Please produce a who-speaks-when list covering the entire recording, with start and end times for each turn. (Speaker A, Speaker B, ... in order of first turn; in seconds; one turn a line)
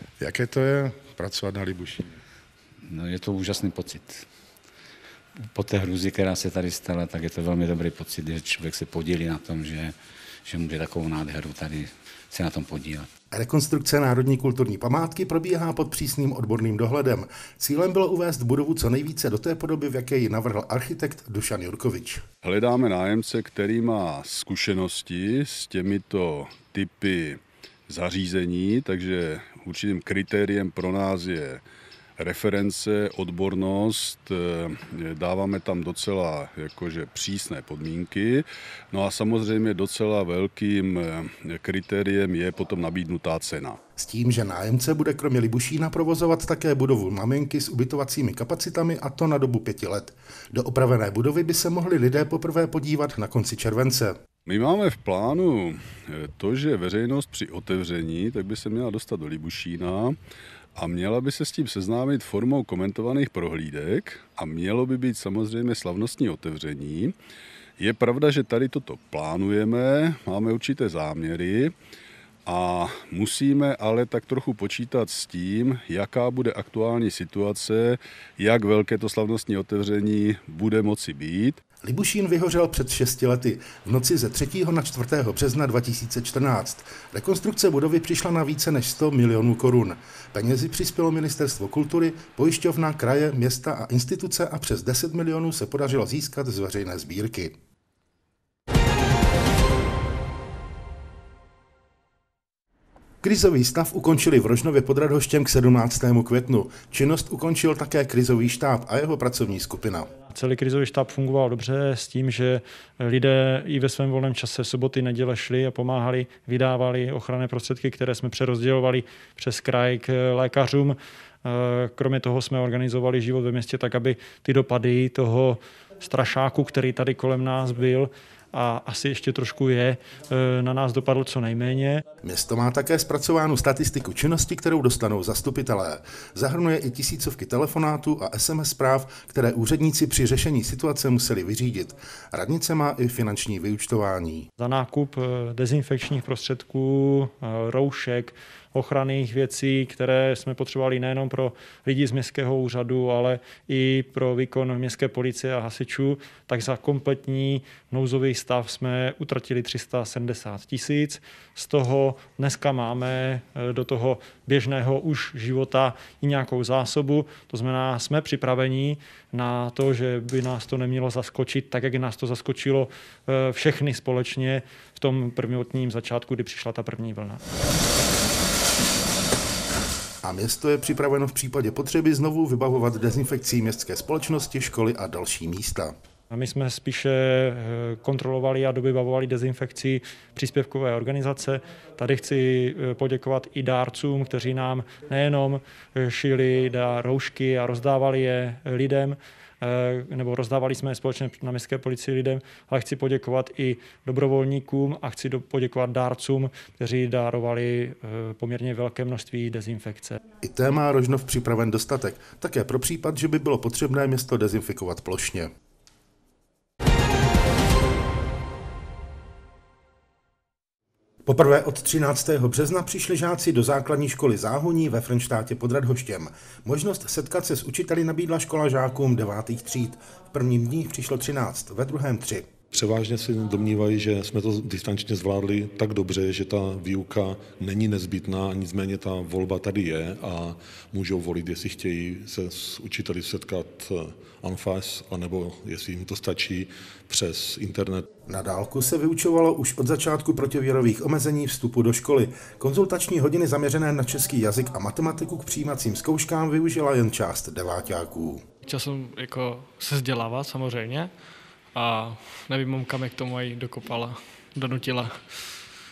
Speaker A: 0.2-2.1
Speaker B: 2.8-4.2
Speaker B: 5.5-13.1
Speaker A: 13.3-22.2
Speaker C: 22.4-31.6
Speaker C: 32.2-43.8
Speaker A: 44.0-54.2
Speaker C: 54.5-60.2
Speaker C: 60.8-67.1
Speaker C: 67.8-71.7
Speaker C: 72.5-81.6
Speaker A: 81.8-97.5
Speaker A: 103.2-110.1
Speaker D: 110.3-132.0
Speaker A: 132.2-144.5
Speaker D: 144.6-177.4
Speaker A: 180.2-185.9
Speaker D: 186.3-210.2
Speaker A: 210.4-215.5
Speaker A: 221.2-232.4
Speaker E: 232.7-248.1
Speaker A: 248.3-258.4
Speaker F: 258.6-261.1
Speaker F: 261.7-265.5